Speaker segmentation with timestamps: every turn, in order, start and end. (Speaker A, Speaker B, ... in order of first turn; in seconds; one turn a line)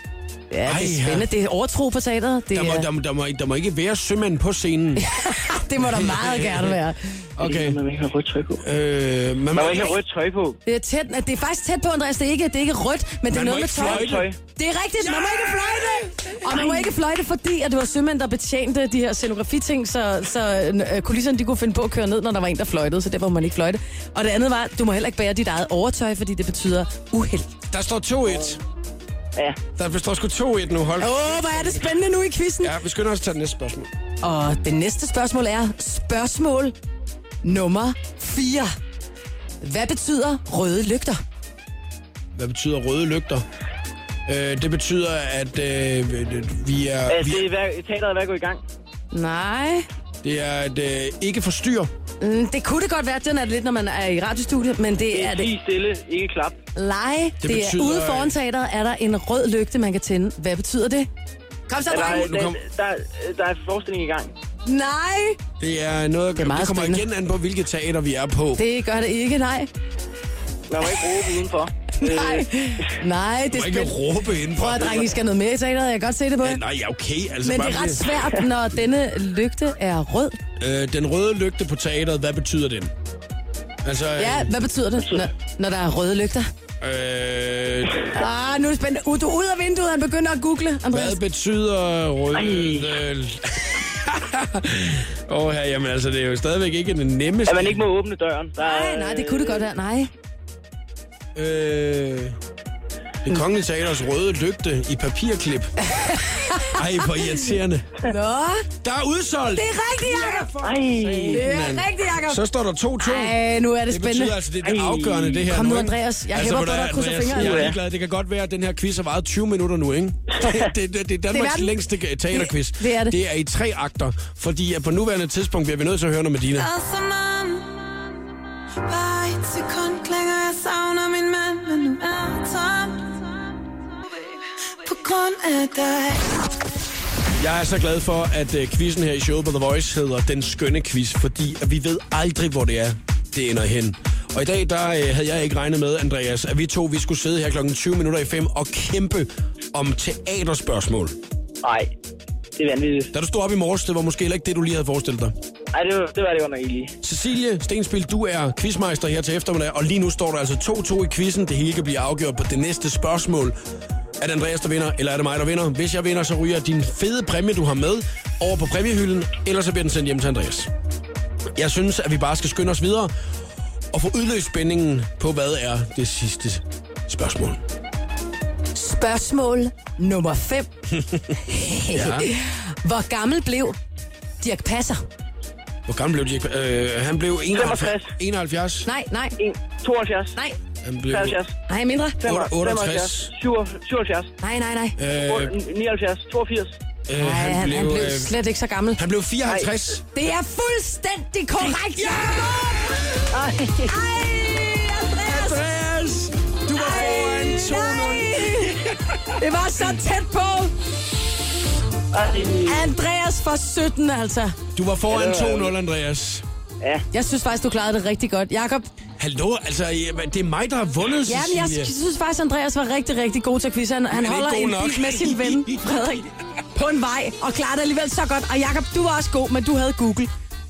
Speaker A: 0.5-2.9
Speaker B: 0.7-1.3
Speaker B: 2.5-5.0
Speaker A: 5.0-7.2
Speaker B: 5.8-6.8
Speaker B: 7.4-7.8
Speaker C: 7.4-8.6
Speaker B: 8.6-10.0
Speaker C: 9.5-10.6
Speaker A: 10.7-27.5
Speaker B: 13.3-14.3
Speaker C: 13.8-14.4
Speaker B: 15.0-16.9
Speaker B: 27.7-28.6
Speaker B: 29.8-32.0
Speaker A: 31.0-32.7
Speaker B: 32.6-33.9
Speaker A: 34.2-36.7
Speaker A: 37.4-38.7
Speaker A: 39.6-41.2
Speaker B: 42.3-43.4
Speaker B: 44.3-47.5
Speaker C: 47.1-48.6
Speaker A: 49.1-49.9
Speaker B: 50.2-51.9
Speaker A: 52.2-55.5
Speaker C: 55.1-56.6
Speaker A: 56.7-61.1
Speaker B: 57.4-58.3
Speaker A: 61.7-62.3
Speaker C: 61.9-64.3
Speaker B: 61.9-62.6
Speaker A: 64.7-65.4
Speaker B: 65.6-68.6
Speaker A: 66.4-67.1
Speaker A: 68.6-69.7
Speaker C: 70.7-73.0
Speaker A: 71.9-73.9
Speaker B: 73.5-75.2
Speaker A: 74.5-76.6
Speaker B: 76.4-78.3
Speaker A: 77.4-80.4
Speaker B: 80.6-82.9
Speaker B: 83.8-84.5
Speaker A: 84.2-86.5
Speaker B: 86.8-88.1
Speaker A: 88.1-91.2
Speaker B: 90.9-97.8
Speaker C: 92.3-93.0
Speaker C: 97.5-99.7
Speaker A: 98.6-100.1
Speaker B: 101.3-102.4
Speaker B: 103.2-105.7
Speaker A: 105.8-107.5
Speaker B: 106.7-107.9
Speaker A: 108.0-108.7
Speaker B: 108.8-126.7
Speaker A: 109.5-110.5
Speaker C: 110.6-111.4
Speaker A: 111.3-112.4
Speaker A: 113.0-114.3
Speaker C: 114.6-115.5
Speaker A: 115.5-117.7
Speaker C: 117.3-117.8
Speaker A: 121.3-121.8
Speaker A: 122.3-123.2
Speaker D: 129.0-132.2
Speaker D: 134.9-136.2
Speaker B: 137.4-151.2
Speaker C: 151.6-151.9
Speaker C: 152.6-153.1
Speaker B: 153.1-155.3
Speaker C: 155.7-156.9
Speaker B: 157.0-163.6
Speaker B: 164.2-170.7
Speaker B: 171.5-173.1
Speaker B: 173.9-177.6
Speaker A: 178.7-180.7
Speaker B: 180.9-181.4
Speaker A: 181.3-183.8
Speaker B: 181.9-182.3
Speaker A: 184.4-185.0
Speaker B: 185.9-188.9
Speaker C: 187.5-188.1
Speaker A: 188.8-189.4
Speaker C: 189.4-190.4
Speaker B: 190.8-191.4
Speaker C: 191.1-191.5
Speaker A: 191.7-192.2
Speaker C: 192.2-194.3
Speaker B: 192.2-193.3
Speaker A: 194.4-195.0
Speaker B: 195.0-195.5
Speaker C: 195.2-196.8
Speaker B: 197.1-198.3
Speaker A: 197.2-199.0
Speaker B: 199.0-200.0
Speaker C: 199.4-199.7
Speaker A: 200.1-203.0
Speaker B: 201.7-203.2
Speaker C: 203.3-204.0
Speaker A: 203.9-205.6
Speaker B: 205.1-209.4
Speaker A: 206.7-208.8
Speaker A: 209.3-210.7
Speaker C: 212.1-212.9
Speaker A: 212.6-214.5
Speaker B: 214.7-216.4
Speaker C: 215.1-215.7
Speaker A: 217.1-218.9
Speaker B: 219.2-221.9
Speaker A: 221.2-230.3
Speaker B: 224.1-226.3